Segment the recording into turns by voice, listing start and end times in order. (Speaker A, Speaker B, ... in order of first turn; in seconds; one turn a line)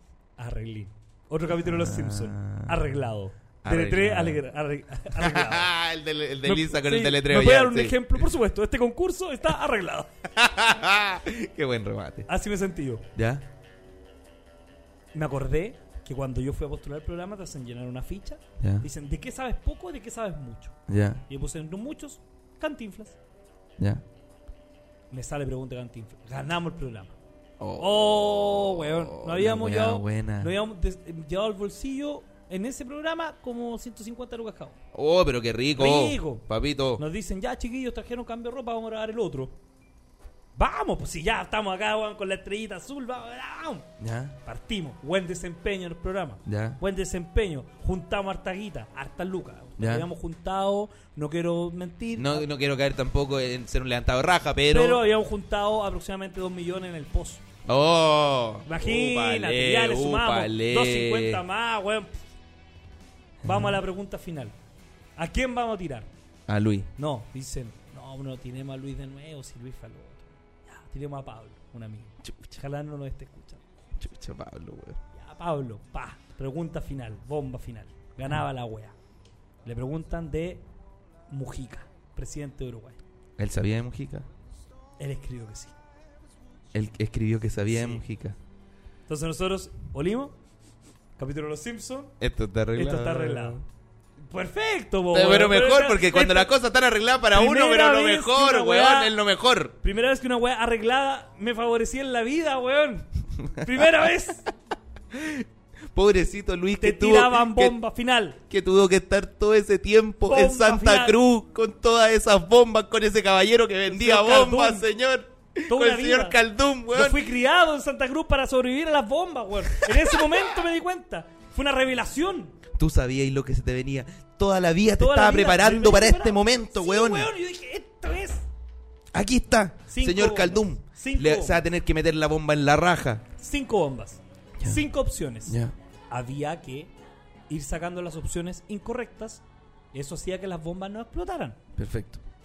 Speaker A: 0.4-5.7
Speaker B: 1.6-3.0
Speaker B: 3.6-4.4
Speaker B: 5.1-8.2
Speaker A: 6.4-10.1
Speaker B: 10.3-12.3
Speaker A: 12.3-13.1
Speaker B: 13.1-13.4
Speaker A: 15.1-20.8
Speaker B: 18.6-18.9
Speaker B: 20.9-21.2
Speaker A: 21.3-23.2
Speaker A: 25.1-27.1
Speaker B: 27.6-30.5
Speaker A: 27.8-34.8
Speaker B: 34.9-37.0
Speaker A: 35.8-36.5
Speaker A: 37.0-39.6
Speaker A: 40.6-43.9
Speaker B: 44.0-44.4
Speaker A: 44.5-52.5
Speaker B: 46.5-46.8
Speaker B: 49.8-50.1
Speaker B: 52.1-55.1
Speaker A: 54.7-57.4
Speaker B: 57.7-61.4
Speaker A: 58.6-62.2
Speaker B: 63.4-63.8
Speaker A: 63.5-64.5
Speaker A: 65.2-66.1
Speaker B: 66.5-66.9
Speaker A: 67.0-73.6
Speaker B: 72.2-72.6
Speaker B: 74.0-75.0
Speaker A: 75.1-78.9
Speaker A: 79.6-80.6
Speaker A: 81.3-83.0
Speaker B: 83.4-84.3
Speaker A: 85.0-85.7
Speaker B: 86.7-88.4
Speaker A: 87.7-88.0
Speaker A: 89.1-90.3
Speaker A: 91.2-92.1
Speaker B: 92.2-93.6
Speaker A: 92.7-93.6
Speaker A: 94.3-96.5
Speaker B: 95.1-99.7
Speaker A: 97.3-99.1
Speaker A: 99.8-104.5
Speaker B: 103.4-104.1
Speaker B: 105.1-107.8
Speaker A: 106.8-108.4
Speaker B: 108.5-117.3
Speaker A: 110.2-111.2
Speaker A: 113.9-114.9
Speaker A: 115.7-116.4
Speaker A: 116.9-122.6
Speaker B: 119.7-120.5
Speaker B: 122.8-127.3
Speaker A: 125.0-128.4
Speaker B: 129.1-133.2
Speaker A: 129.9-131.6
Speaker A: 133.4-135.6
Speaker B: 134.6-134.9
Speaker B: 135.5-135.8
Speaker A: 136.1-136.9
Speaker A: 137.5-139.4
Speaker A: 139.9-141.6
Speaker B: 141.8-142.2